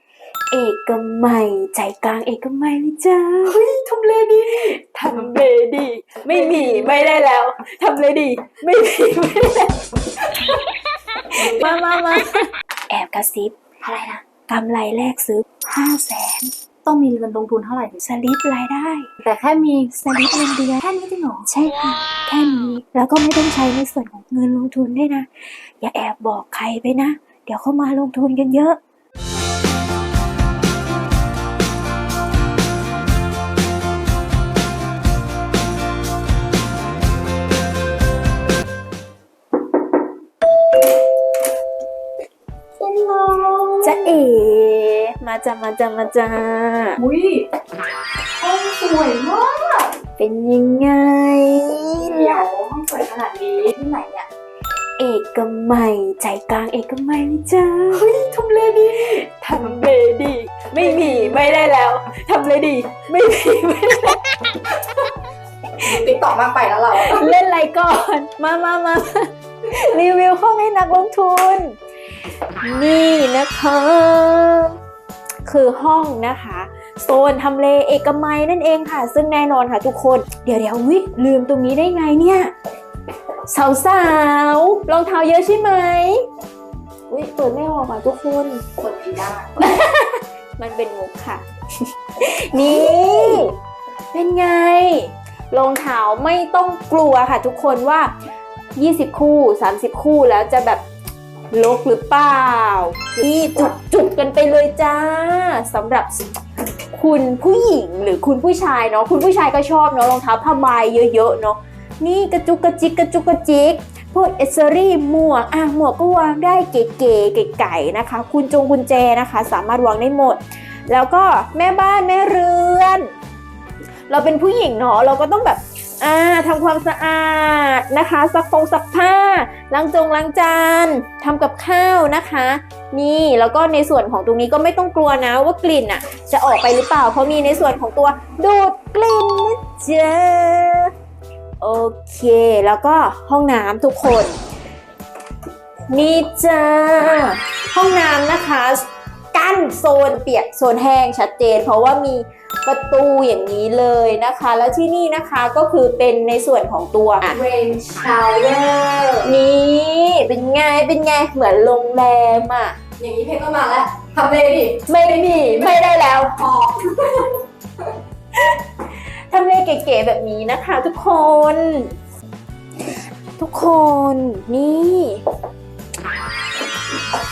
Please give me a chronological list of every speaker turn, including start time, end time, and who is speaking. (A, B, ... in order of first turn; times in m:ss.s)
0:00.5-0:03.6 A
0:03.4-0:05.3 B
0:04.7-0:13.6 A
0:11.4-0:11.7 B
0:13.8-0:14.2 B
0:14.5-0:16.5 A
0:16.8-0:18.0 B
0:18.0-0:19.1 A
0:19.2-0:20.0 B
0:20.0-0:20.8 A
0:20.8-0:21.5 B
0:21.5-0:28.8 A
0:42.8-0:44.2 B
0:43.8-0:47.0 A
0:47.0-0:47.5 B
0:48.4-0:49.9 B
0:50.2-0:52.4 A
0:52.0-0:54.3 B
0:55.0-0:58.1 A
0:57.9-0:59.2 B
0:59.1-1:04.4 A
1:00.9-1:01.2 B
1:05.8-1:07.3 B
1:06.9-1:11.8 A
1:12.6-1:14.7 A
1:15.4-1:22.5 A
1:23.5-1:26.2 A
1:27.1-1:28.6 A
1:28.8-1:29.7 B
1:29.6-1:31.4 A
1:32.2-1:33.5 A
1:32.6-1:33.5 B
1:34.1-1:38.1 A
1:38.8-1:40.8 A
1:41.5-1:46.2 A
1:46.9-2:03.1 A
2:04.1-2:20.9 A
2:21.6-2:24.4 A
2:25.8-2:37.4 A
2:37.2-2:39.3 B
2:39.2-2:42.8 A
2:43.0-2:47.4 B
2:44.9-2:46.4 A
2:48.3-2:51.9 A
2:53.4-2:55.2 A